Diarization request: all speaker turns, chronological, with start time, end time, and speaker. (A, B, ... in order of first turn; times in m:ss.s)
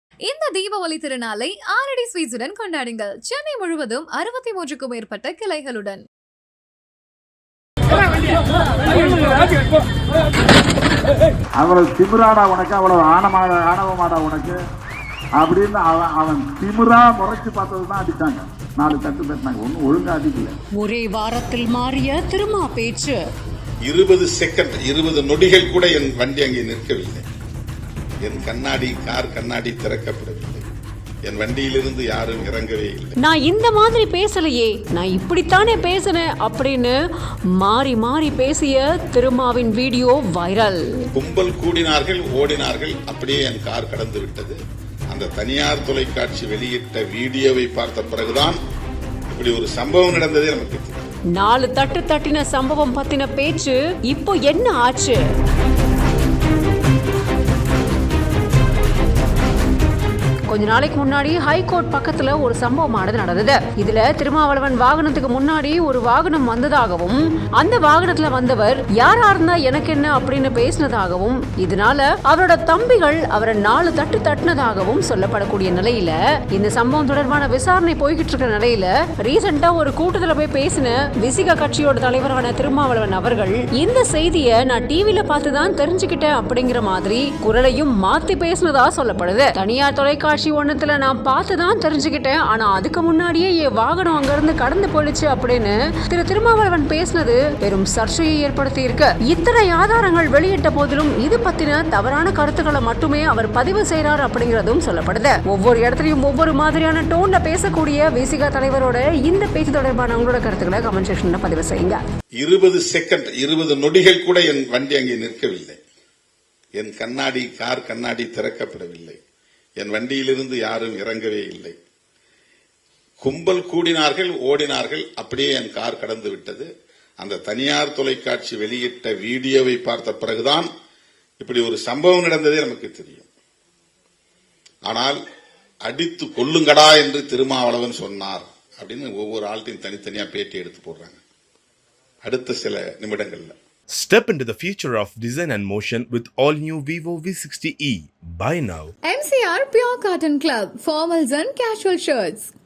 0:00.2-0:06.0 A
0:11.6-0:14.6 B
0:15.4-0:20.6 B
0:20.8-0:23.2 C
0:23.8-0:27.2 D
0:28.2-0:30.6 D
0:31.2-0:33.1 D
0:33.2-0:36.9 C
0:37.6-0:41.0 C
0:41.2-0:44.6 D
0:45.1-0:48.6 D
0:49.3-0:51.0 D
0:51.3-0:55.2 C
1:00.5-1:52.0 C
1:52.4-1:55.8 D
1:56.8-1:59.2 D
1:59.8-2:01.7 D
2:03.2-2:06.7 D
2:07.2-2:10.7 D
2:11.4-2:13.3 D
2:14.8-2:15.2 D
2:15.8-2:21.2 D
2:22.2-2:23.5 D
2:23.9-2:28.9 E
2:29.0-2:32.5 F